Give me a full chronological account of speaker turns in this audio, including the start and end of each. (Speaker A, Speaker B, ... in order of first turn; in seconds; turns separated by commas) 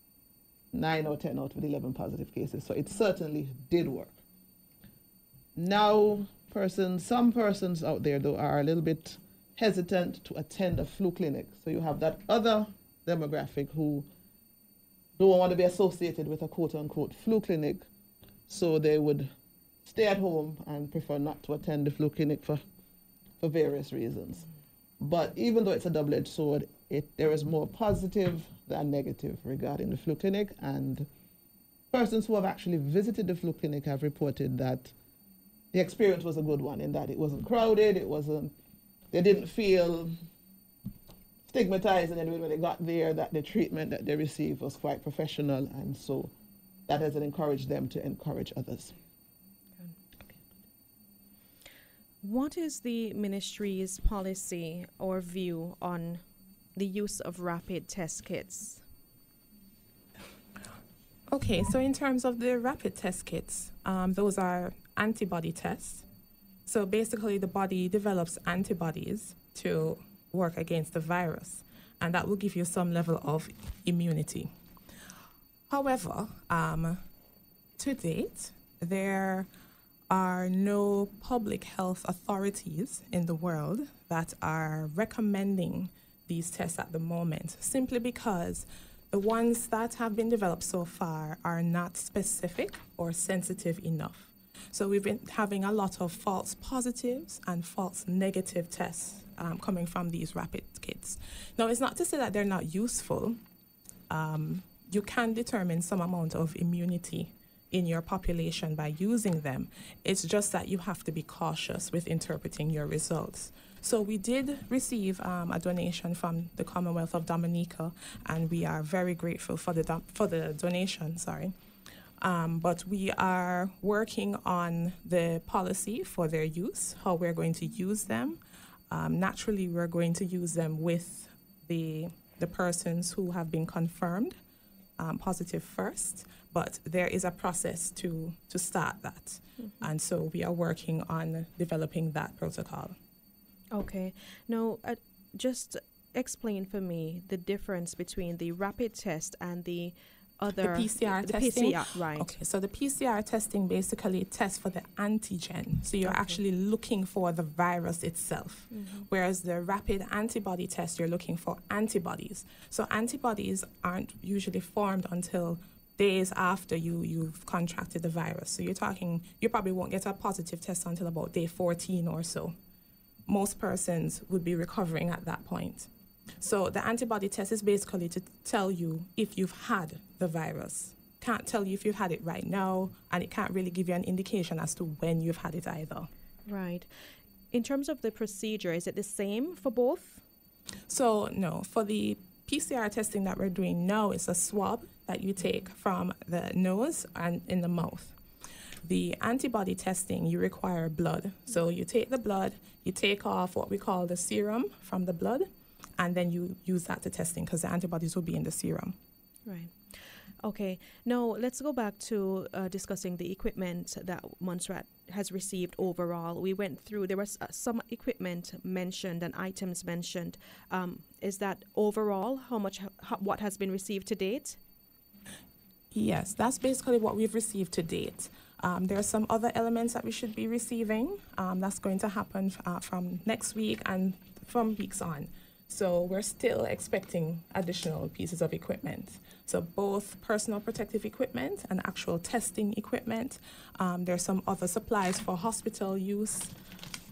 Speaker A: 0.7-4.2, Speaker A: 5.5-14.1, Speaker A: 15.2-17.9, Speaker A: 18.5-19.3, Speaker A: 19.8-22.6, Speaker A: 23.4-24.5, Speaker A: 25.0-31.1, Speaker A: 31.9-34.9, Speaker A: 35.7-38.5, Speaker A: 39.1-40.1, Speaker A: 41.5-46.3, Speaker A: 46.9-48.9, Speaker B: 52.2-56.2, Speaker B: 56.8-58.8, Speaker C: 61.3-66.0, Speaker C: 66.7-74.5, Speaker C: 75.7-77.0, Speaker C: 77.8-79.5, Speaker C: 80.1-103.4, Speaker C: 104.1-121.5, Speaker C: 122.2-128.4, Speaker C: 128.9-134.4, Speaker C: 135.0-143.0, Speaker B: 143.7-152.3, Speaker C: 150.6-172.5, Speaker B: 156.0-156.4, Speaker B: 158.7-159.1, Speaker C: 173.3-175.9, Speaker C: 176.4-186.1, Speaker B: 186.5-186.9, Speaker B: 187.5-190.2, Speaker C: 190.9-198.2, Speaker C: 198.8-209.0, Speaker B: 209.4-209.7, Speaker B: 210.4-224.6, Speaker C: 225.9-246.5